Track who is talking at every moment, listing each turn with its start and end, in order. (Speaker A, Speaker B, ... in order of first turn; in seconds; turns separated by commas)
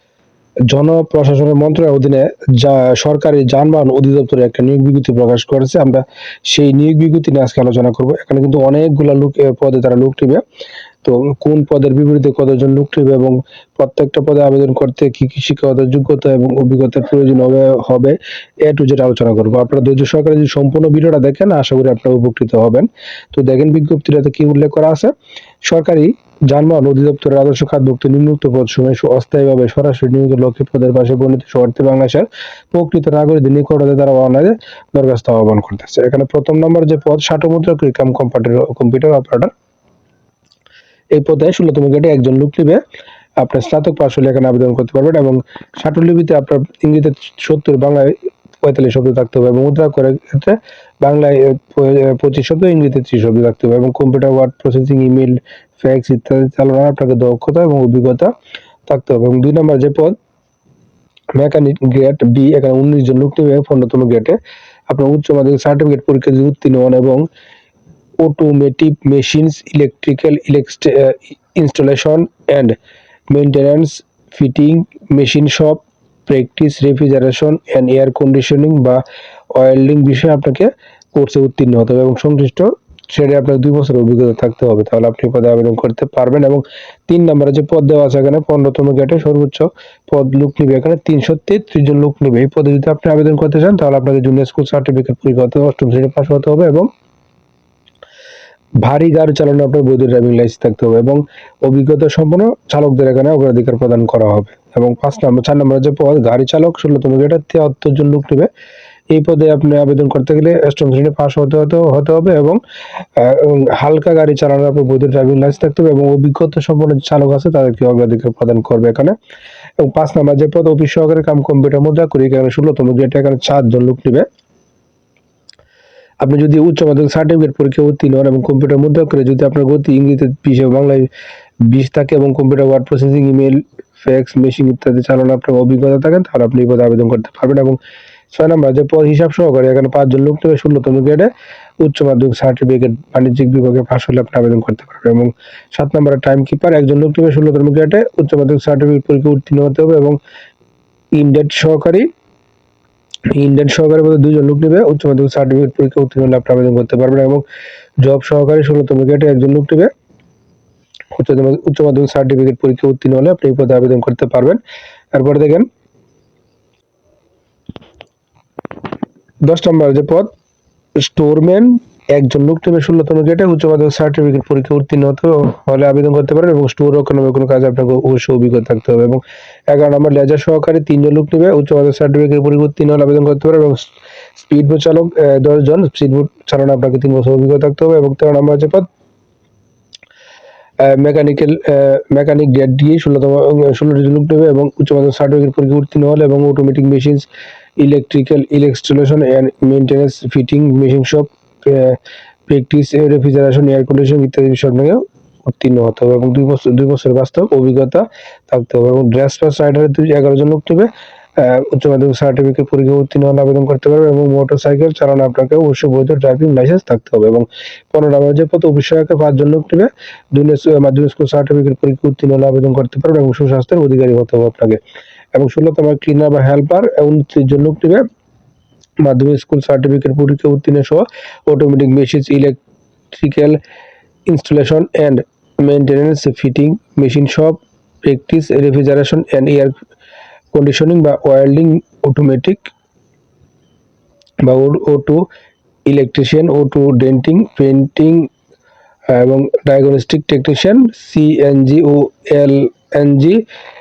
Speaker A: 0.7-10.4, Speaker A: 11.0-39.5, Speaker A: 41.1-42.8, Speaker A: 43.4-58.3, Speaker A: 58.9-60.2, Speaker A: 61.3-64.4, Speaker A: 64.9-67.3, Speaker A: 68.2-72.8, Speaker A: 73.3-96.9, Speaker A: 98.8-108.5, Speaker A: 109.1-112.6, Speaker A: 113.2-119.2, Speaker A: 119.8-124.3, Speaker A: 126.2-131.1, Speaker A: 131.6-137.8, Speaker A: 138.3-141.3, Speaker A: 141.8-150.2, Speaker A: 151.1-152.1, Speaker A: 153.3-157.4, Speaker A: 158.0-159.9, Speaker A: 161.1-164.6, Speaker A: 165.1-165.7, Speaker A: 169.4-170.3, Speaker A: 170.9-188.9, Speaker A: 190.8-197.3, Speaker A: 197.8-224.8, Speaker A: 225.3-228.1, Speaker A: 229.0-232.6, Speaker A: 233.1-233.6, Speaker A: 234.3-239.8, Speaker A: 240.5-242.7, Speaker A: 244.4-245.3, Speaker A: 245.8-248.3, Speaker A: 249.1-253.4